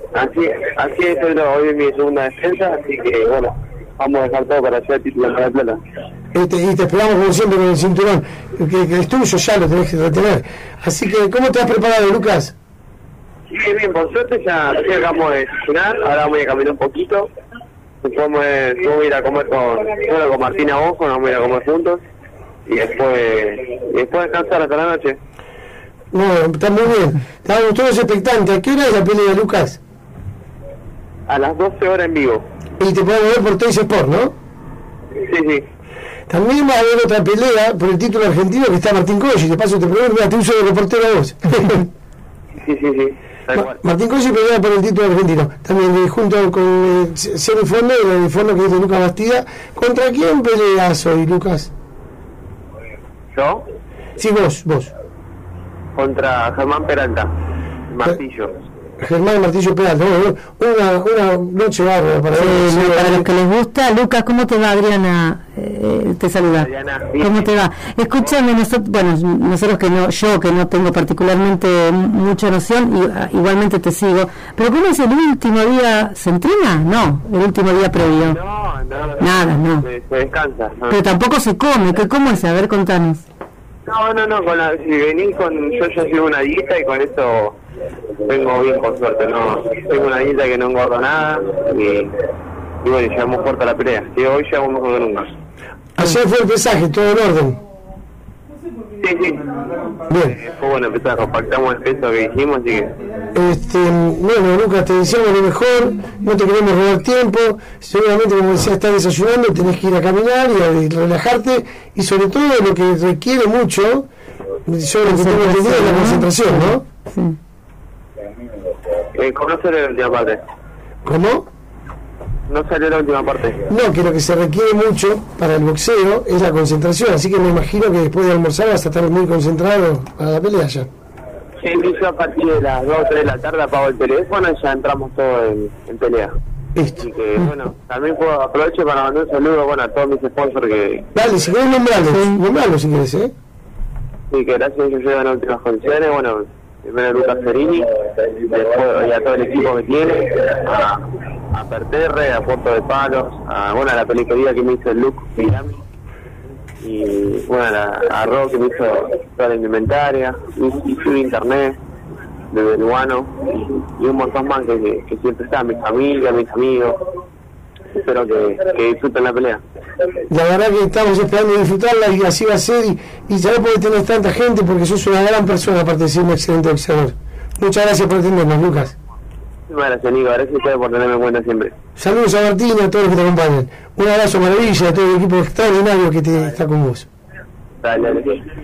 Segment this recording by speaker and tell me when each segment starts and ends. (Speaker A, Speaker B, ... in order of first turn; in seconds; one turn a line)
Speaker A: 0.1-5.8
Speaker B: 6.3-12.5
Speaker A: 13.5-17.3
Speaker A: 18.0-22.0
Speaker A: 22.7-25.2
Speaker B: 26.1-29.8
Speaker A: 31.3-32.5
Speaker B: 32.8-34.3
Speaker A: 35.2-35.6
Speaker B: 36.3-41.9
Speaker A: 42.6-43.8
Speaker B: 43.5-51.7
Speaker A: 53.3-53.6
Speaker B: 54.2-54.9
Speaker A: 56.0-57.3
Speaker A: 57.9-58.6
Speaker B: 59.0-63.3
Speaker C: 62.3-78.4
Speaker A: 66.5-67.5
Speaker A: 78.2-81.0
Speaker C: 79.2-79.8
Speaker C: 80.9-83.2
Speaker A: 83.9-87.6
Speaker A: 88.2-92.1
Speaker A: 92.8-95.3
Speaker B: 96.0-97.6
Speaker A: 99.0-99.5
Speaker B: 100.1-100.4
Speaker A: 100.4-102.9
Speaker B: 103.3-114.1
Speaker B: 114.7-116.8
Speaker C: 115.1-117.4
Speaker A: 119.1-120.4
Speaker B: 121.0-121.5
Speaker A: 122.5-123.7
Speaker B: 123.7-130.9
Speaker A: 131.6-136.3
Speaker B: 136.8-137.0
Speaker A: 137.0-141.1
Speaker B: 141.2-143.3
Speaker C: 142.1-142.4
Speaker A: 144.3-155.8
Speaker A: 156.8-161.8
Speaker A: 162.5-167.1
Speaker A: 168.0-169.6
Speaker B: 170.3-179.0
Speaker A: 179.7-181.7
Speaker B: 182.0-187.1
Speaker A: 187.8-188.4